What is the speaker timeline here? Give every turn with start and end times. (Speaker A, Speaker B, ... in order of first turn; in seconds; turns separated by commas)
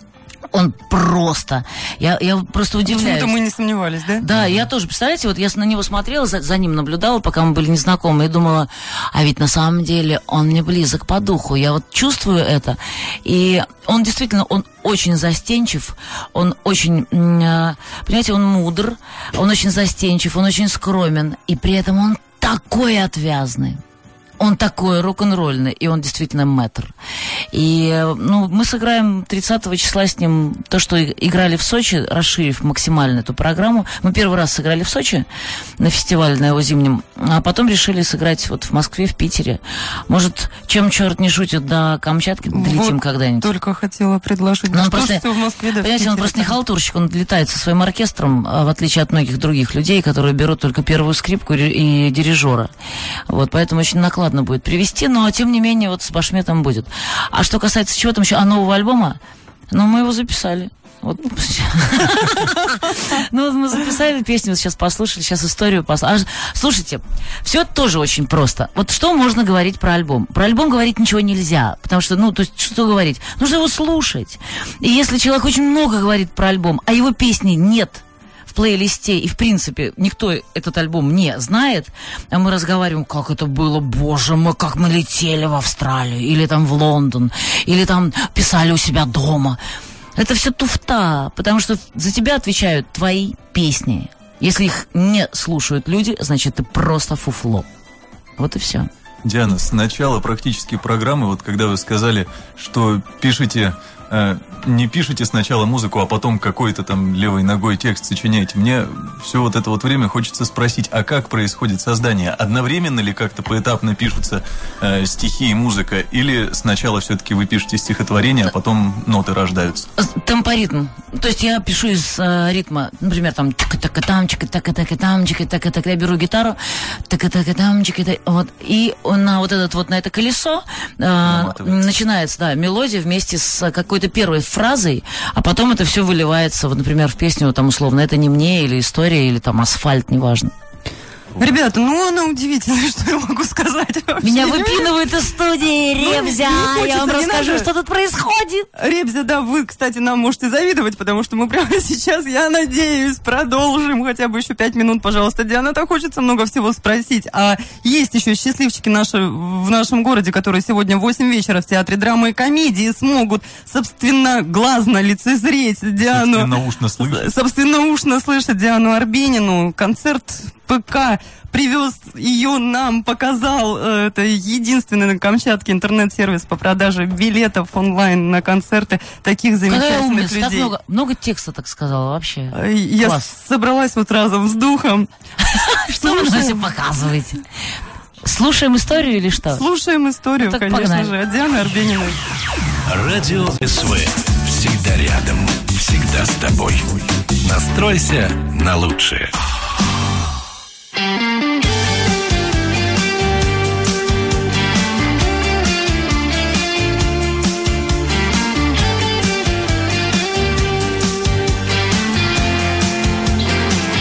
Speaker A: 0.5-3.4, Speaker B: 2.9-4.2, Speaker A: 4.2-23.8, Speaker A: 24.4-26.9, Speaker A: 27.5-35.3, Speaker A: 35.8-43.5, Speaker B: 42.5-46.5, Speaker A: 44.7-45.3, Speaker A: 45.8-52.7, Speaker A: 53.3-59.2, Speaker A: 59.7-89.6, Speaker A: 90.2-97.7, Speaker A: 98.4-98.9, Speaker C: 99.2-119.9, Speaker A: 120.0-140.5, Speaker C: 131.3-131.9, Speaker B: 141.4-144.9, Speaker A: 144.2-148.7, Speaker B: 146.0-147.7, Speaker B: 148.8-180.7, Speaker C: 166.0-167.3, Speaker A: 179.7-183.3, Speaker B: 182.5-185.1, Speaker A: 185.5-187.4, Speaker B: 186.0-186.6, Speaker A: 188.2-189.6, Speaker B: 189.5-192.2, Speaker A: 190.4-191.1, Speaker D: 192.9-199.3